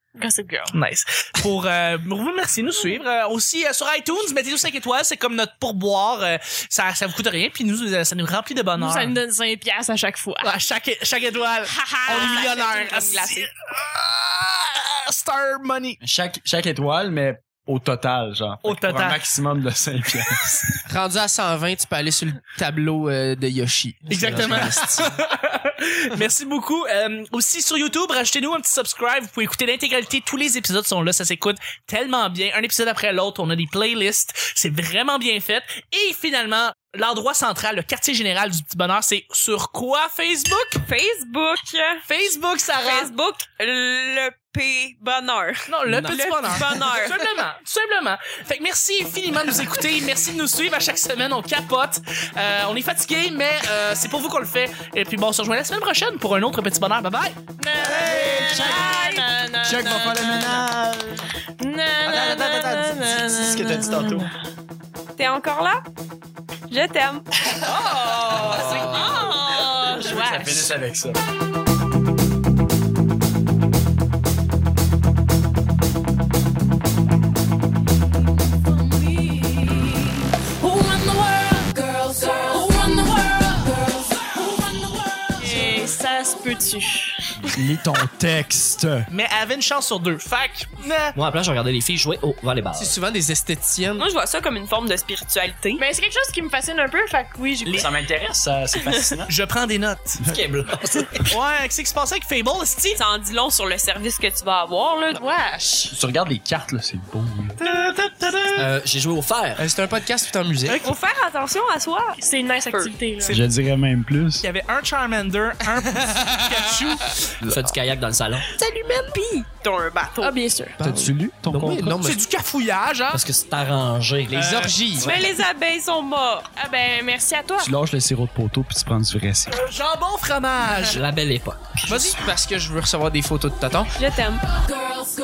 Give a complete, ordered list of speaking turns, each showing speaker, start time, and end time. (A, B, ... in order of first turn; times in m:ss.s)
0:00.2-0:00.8 A
0:00.7-0:09.2 B
0:08.8-0:10.6 A
0:10.4-0:16.0 B
0:11.7-0:12.5 A
0:12.0-0:13.5 C
0:16.0-0:20.8 D
0:18.6-0:19.2 B
0:20.9-0:25.1 E
0:24.1-0:40.8 B
0:24.3-0:24.7 D
0:40.8-0:42.0 C
0:42.1-0:43.1 B
0:42.8-0:47.4 C
0:45.7-0:57.4 B
0:45.9-0:46.2 F
0:57.6-1:00.7 A
0:57.7-0:59.1 D
0:58.6-0:59.2 C
0:59.6-1:01.2 D
1:01.6-1:04.3 A
1:02.0-1:04.3 D
1:05.2-1:05.8 C
1:06.7-1:09.1 C
1:07.9-1:08.2 A
1:08.4-1:09.2 D
1:08.9-1:10.7 A
1:09.8-1:11.2 D
1:25.4-1:27.5 A
1:27.5-1:29.1 D
1:29.1-1:31.2 B
1:31.2-1:33.0 F
1:32.8-1:34.1 E
1:34.0-1:35.8 C
1:35.8-1:37.9 A
1:37.7-1:39.3 D
1:39.3-1:40.2 B
1:40.2-1:41.1 D
1:40.2-1:41.3 F
1:41.2-1:43.0 B
1:43.0-1:45.2 C
1:45.2-1:45.9 A
1:45.9-1:47.6 D
1:47.6-1:48.7 E
1:48.5-1:49.6 F
1:49.6-1:51.0 E
1:50.7-1:52.9 C
1:52.2-1:53.4 A
1:53.2-1:54.4 D
1:54.4-1:57.2 B
1:57.4-1:58.5 F
1:58.8-2:00.4 C
2:00.2-2:00.8 A
2:00.8-2:02.0 D
2:00.8-2:02.2 E
2:01.8-2:03.2 B
2:03.1-2:04.4 F
2:04.3-2:05.1 E
2:04.3-2:04.8 B
2:05.0-2:05.3 F
2:05.0-2:06.5 C
2:06.6-2:07.7 A
2:07.6-2:09.6 D
2:09.5-2:11.0 B
2:10.9-2:11.8 F
2:11.9-2:14.0 E
2:11.9-2:12.2 B
2:14.0-2:14.4 C